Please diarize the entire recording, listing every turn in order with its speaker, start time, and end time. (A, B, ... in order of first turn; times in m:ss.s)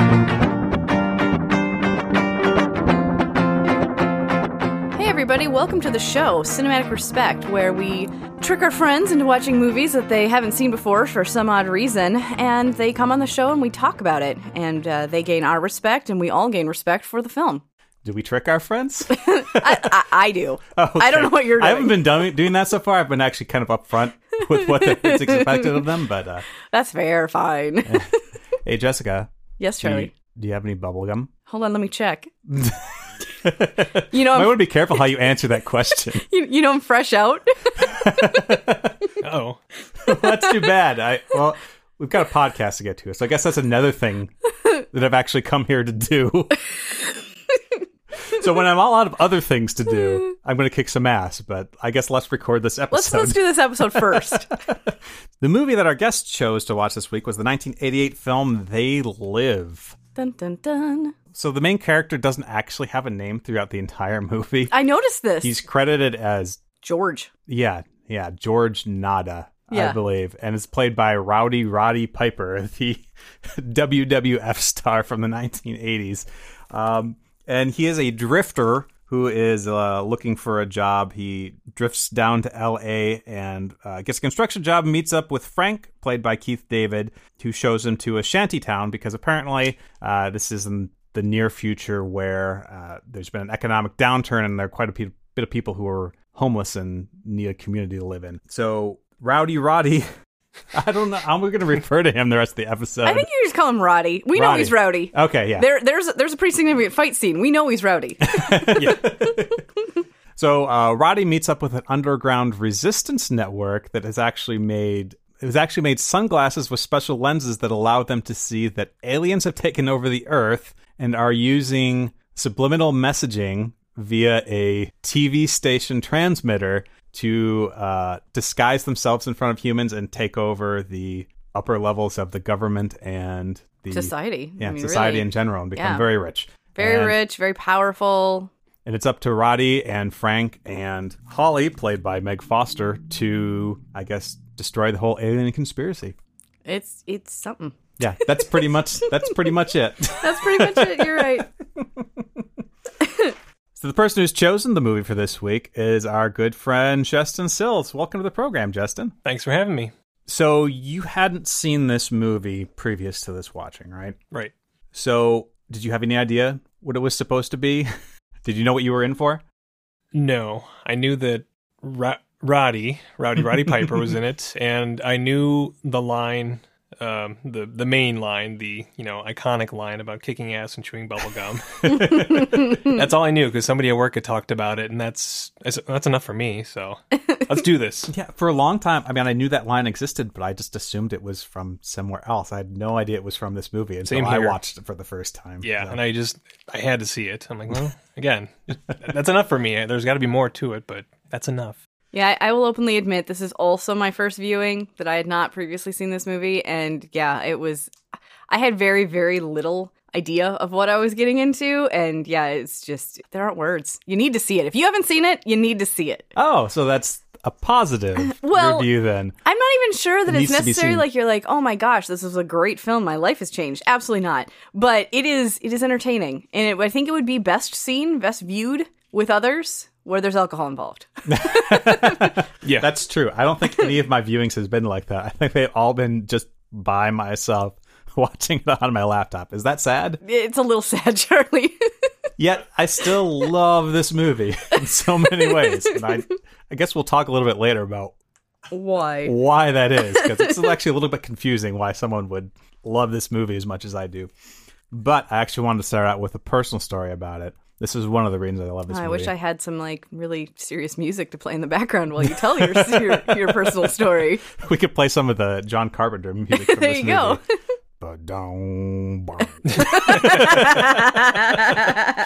0:04.9-0:17.6 A
0:18.0-0:19.9 B
0:19.1-0:22.3 A
0:20.8-0:26.5 B
0:24.7-0:25.9 A
0:26.7-0:28.2 A
0:28.6-0:31.3 B
0:29.6-0:30.1 A
0:31.5-0:32.3 A
0:32.5-0:36.2 B
0:34.1-0:35.1 A
0:36.2-0:38.5 A
0:37.8-0:39.0 B
0:39.2-0:39.6 C
0:40.0-0:46.6 B
0:40.1-0:40.7 A
0:48.3-0:54.4 B
0:52.9-0:54.5 A
0:55.4-1:00.0 B
1:00.2-1:01.1 A
1:01.3-1:04.7 B
1:04.7-1:05.6 A
1:05.4-1:06.6 B
1:06.8-1:07.3 A
1:07.5-1:40.1 B
1:09.7-1:10.0 A
1:40.7-1:43.2 B
1:43.0-1:49.4 A
1:44.4-1:45.7 B
1:48.3-1:49.6 B
1:48.8-1:49.0 C
1:50.4-2:17.2 B
2:13.9-2:16.1 A
2:16.8-2:18.5 A
2:18.8-2:26.2 B
2:26.7-2:27.8 A
2:28.0-2:31.4 B
2:28.4-2:28.6 A
2:30.2-2:31.5 A
2:33.8-2:39.2 B
2:39.2-2:39.9 C
2:40.3-2:44.2 B
2:44.9-2:47.9 B
2:48.4-2:49.4 B
2:50.1-3:08.1 C
3:01.9-3:02.3 B
3:08.1-3:16.0 B
3:14.0-3:14.6 C
3:15.6-3:21.8 C
3:22.1-3:27.9 A
3:28.5-3:36.3 A
3:36.4-3:39.4 B
3:38.3-3:38.9 A
3:39.4-3:52.2 A
3:40.3-3:41.1 B
3:51.3-4:00.2 B
3:52.6-3:52.9 C
4:00.2-4:01.8 A
4:02.4-4:08.1 B
4:05.4-4:06.2 A
4:08.7-4:09.4 A
4:09.2-4:14.3 B
4:14.9-4:19.3 B
4:18.9-4:24.4 A
4:22.8-4:23.9 B
4:24.6-4:27.4 B
4:26.5-4:27.4 A
4:28.0-4:31.8 B
4:29.7-4:30.6 C
4:29.9-4:32.0 A